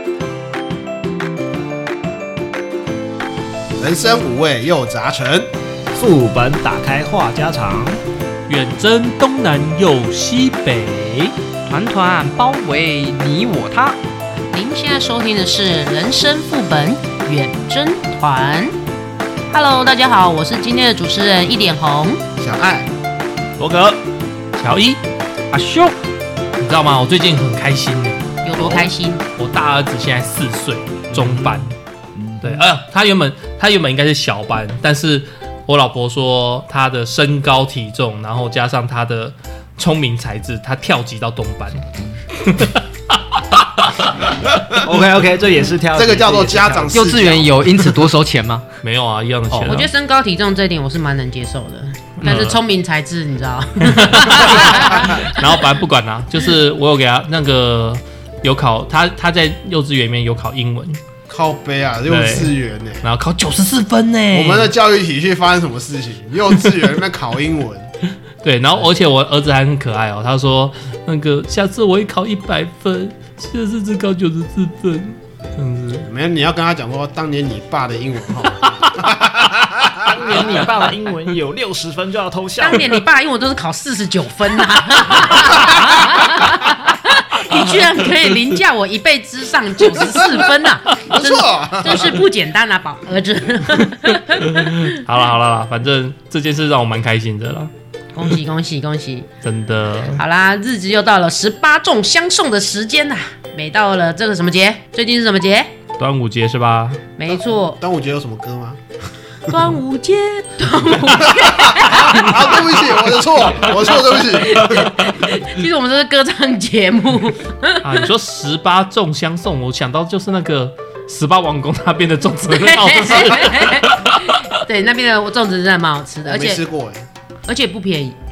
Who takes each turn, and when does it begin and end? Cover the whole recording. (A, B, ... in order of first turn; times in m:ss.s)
0:03.8-0:05.5 A
0:05.9-0:08.0 B
0:08.5-0:11.3 C
0:11.7-0:14.0 D
0:14.5-0:18.8 E
0:19.5-0:22.2 E
0:22.4-0:22.9 A
0:23.6-0:24.0 B
0:24.6-0:25.0 C
0:25.5-0:26.0 D
0:26.6-0:28.3 C
0:28.4-0:29.2 E
0:28.6-0:28.9 B
0:29.4-0:31.8 C
0:31.1-0:32.6 B
0:32.4-0:44.7 C
0:44.7-0:47.0 B
0:45.9-0:48.1 A
0:46.9-0:48.7 D
0:48.8-0:49.9 C
0:49.5-0:49.8 D
0:49.7-0:55.5 E
0:52.2-0:52.6 C
0:53.8-1:01.0 C
1:01.3-1:03.0 A
1:02.1-1:04.7 C
1:04.3-1:07.9 A
1:08.4-1:16.0 C
1:16.0-1:20.5 A
1:20.0-1:23.0 B
1:22.6-1:35.0 E
1:31.1-1:32.2 A
1:34.0-1:37.7 C
1:38.1-1:39.3 E
1:39.4-1:40.2 C
1:40.2-1:45.7 E
1:46.0-1:47.0 C
1:47.2-1:47.8 E
1:47.5-1:48.8 A
1:49.5-1:52.6 E
1:51.1-1:55.0 A
1:54.0-1:58.0 E
1:57.8-2:04.4 C
2:02.5-2:06.6 E
2:06.2-2:07.0 A
2:07.5-2:08.2 E